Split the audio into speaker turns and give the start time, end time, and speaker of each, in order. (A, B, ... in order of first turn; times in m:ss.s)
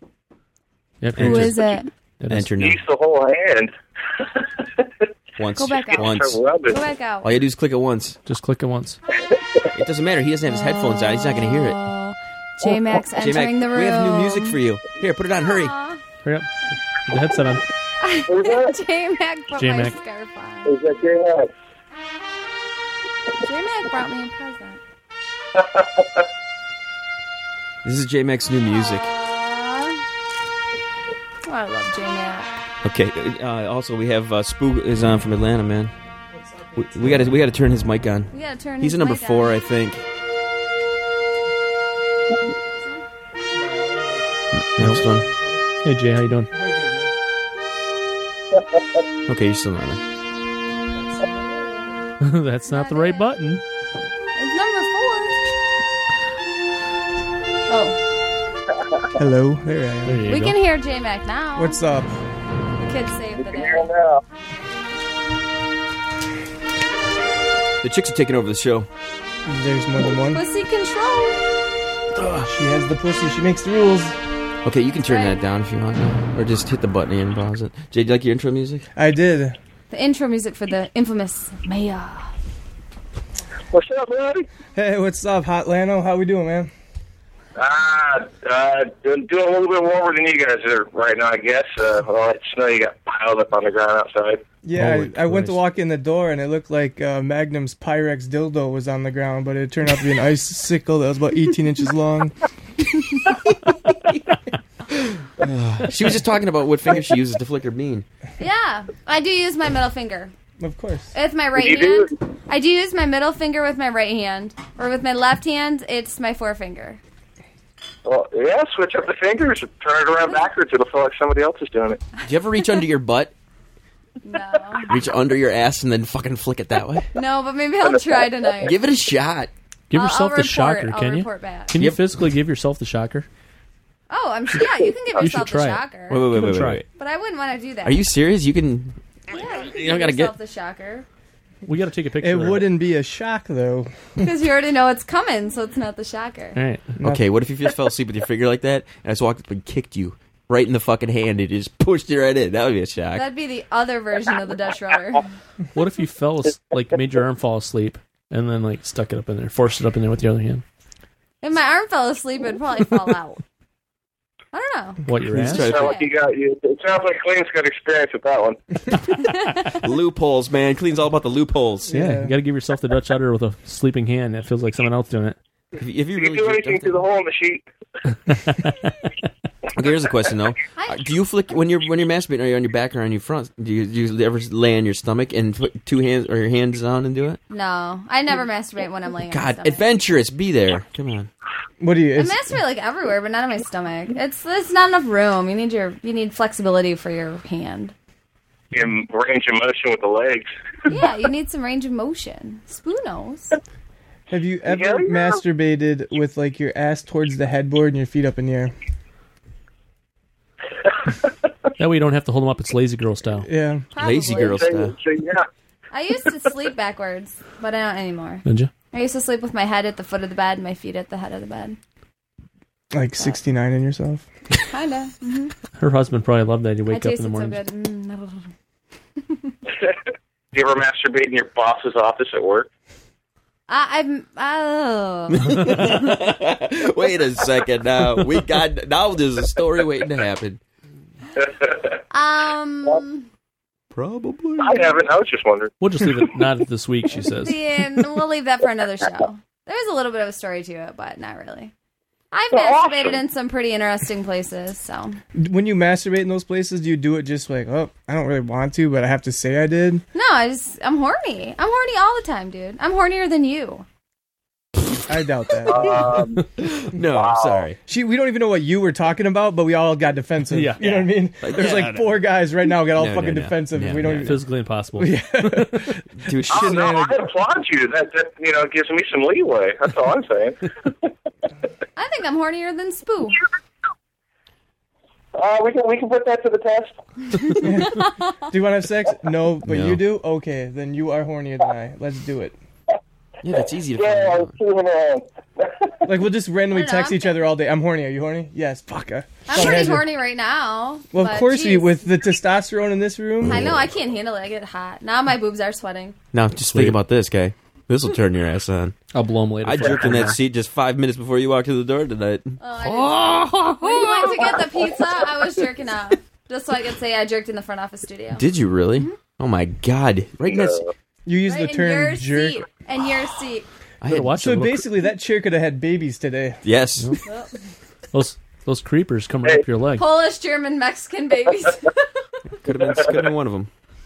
0:01.0-0:02.5 A
0:01.1-0:01.6 B
0:01.2-0:01.9 C
0:02.3-0:02.8 B
0:02.6-0:05.1 D
0:05.4-0:06.4 B
0:05.6-0:06.1 C
0:05.9-0:06.8 D
0:06.7-0:07.3 C
0:07.2-0:08.2 B
0:08.2-0:09.0 A
0:09.3-0:09.6 D
0:09.7-0:11.8 B
0:10.5-0:14.6 C
0:13.2-0:15.7 B
0:15.4-0:16.0 C
0:16.2-0:17.6 A
0:18.0-0:20.8 C
0:18.3-0:18.8 D
0:19.6-0:19.9 A
0:20.6-0:21.5 D
0:23.4-0:24.8 C
0:25.5-0:26.2 D
0:27.8-0:29.1 B
0:28.6-0:30.0 C
0:31.4-0:32.5 C
0:32.8-0:35.9 B
0:36.3-0:37.2 E
0:36.8-0:40.0 B
0:38.3-0:39.6 C
0:43.5-0:44.3 E
0:44.5-0:45.3 B
0:45.0-0:45.6 E
0:45.8-0:46.5 A
0:46.5-0:47.1 E
0:48.5-0:48.8 D
0:49.3-0:50.0 B
0:51.0-0:51.7 E
0:52.2-0:53.6 A
0:52.6-0:53.3 C
0:54.4-0:55.4 C
0:57.7-0:58.0 C
0:58.7-0:59.1 D
0:59.2-1:00.2 E
1:00.0-1:00.6 A
1:00.3-1:01.8 C
1:01.6-1:02.1 E
1:02.8-1:03.9 C
1:03.4-1:04.2 D
1:07.8-1:08.9 B
1:09.5-1:10.4 E
1:10.0-1:11.4 C
1:12.1-1:12.5 B
1:12.4-1:14.2 E
1:14.6-1:18.9 B
1:15.0-1:15.4 C
1:19.0-1:19.6 E
1:19.9-1:22.3 C
1:23.7-1:24.5 D
1:24.7-1:26.7 E
1:27.6-1:34.4 D
1:34.6-1:42.3 E
1:34.8-1:35.6 A
1:45.0-1:48.0 B
1:48.4-1:50.3 C
1:50.6-1:51.1 E
1:51.1-1:57.0 C
1:51.6-1:52.1 D
1:58.0-2:02.0 D
2:02.2-2:03.3 B
2:04.2-2:04.9 C
2:04.9-2:07.1 B
2:07.1-2:08.7 C
2:07.8-2:08.7 D
2:08.6-2:09.5 B
2:09.9-2:13.3 A
2:09.9-2:11.7 C
2:11.8-2:12.0 B
2:14.1-2:16.3 C
2:15.2-2:16.8 A
2:16.1-2:16.8 B
2:17.0-2:18.0 C
2:17.8-2:19.0 B
2:19.3-2:21.0 C
2:19.6-2:20.3 B
2:21.6-2:22.7 A
2:22.2-2:23.9 E
2:24.2-2:26.6 C
2:26.6-2:27.0 A
2:27.0-2:27.2 E
2:27.0-2:33.3 B
2:33.1-2:35.3 C
2:35.7-2:40.6 A
2:41.4-2:43.4 C
2:44.5-2:46.1 C
2:45.0-2:45.7 A
2:45.3-2:45.9 B
2:45.5-2:48.6 D
2:49.2-2:49.8 C
2:49.6-2:51.9 B
2:51.9-2:52.4 E
2:51.9-2:55.4 A
2:55.7-2:57.0 B
2:56.2-2:57.6 D
2:59.7-3:07.4 B
3:00.8-3:01.0 C
3:07.5-3:09.8 C
3:09.3-3:11.3 B
3:11.8-3:12.6 E
3:12.2-3:17.9 C
3:18.7-3:20.5 D
3:20.9-3:23.6 C
3:24.3-3:28.7 E
3:24.6-3:25.4 D
3:31.8-3:33.5 A
3:33.4-3:33.8 E
3:33.9-3:34.6 C
3:34.0-3:35.0 B
3:34.4-3:35.5 D
3:35.9-3:41.8 C
3:38.4-3:38.7 A
3:42.9-3:44.3 E
3:44.7-3:45.5 C
3:45.8-3:47.6 A
3:46.9-3:48.5 C
3:49.2-3:49.5 C
3:50.5-3:52.7 D
3:53.7-3:55.9 C
3:55.3-4:00.6 B
4:01.4-4:01.9 D
4:02.1-4:03.3 C
4:03.9-4:05.0 B
4:04.6-4:06.2 D
4:05.8-4:07.6 A
4:07.4-4:11.7 C
4:12.3-4:15.2 C
4:12.5-4:13.2 D
4:15.4-4:20.0 E
4:20.1-4:23.8 C
4:25.1-4:26.2 E
4:25.7-4:26.5 D
4:25.8-4:27.8 B
4:27.1-4:27.6 D
4:27.8-4:37.2 E
4:30.5-4:31.1 A
4:31.4-4:32.1 B
4:32.9-4:34.4 B
4:34.2-4:35.9 A
4:36.2-4:37.1 B
4:36.5-4:41.1 D
4:42.0-4:43.4 C
4:45.3-4:46.9 D
4:47.6-4:52.6 E
4:47.6-4:48.1 C
4:49.6-4:50.0 B
4:53.4-4:54.5 B
4:53.5-4:56.0 D
4:56.0-5:00.1 E
4:56.7-4:57.4 C
4:59.5-5:02.0 C
5:01.1-5:03.7 E
5:03.4-5:03.9 B
5:03.4-5:06.1 C
5:06.3-5:09.0 B
5:09.1-5:10.4 A
5:09.6-5:14.6 B
5:12.6-5:18.4 C
5:18.3-5:20.8 B
5:20.4-5:20.9 D
5:21.2-5:22.7 E
5:21.4-5:23.7 C
5:24.0-5:24.8 B
5:24.1-5:24.8 A
5:24.3-5:26.6 E
5:26.6-5:27.2 B
5:27.2-5:27.6 C
5:28.1-5:30.1 A
5:30.0-5:32.2 C
5:32.6-5:33.7 B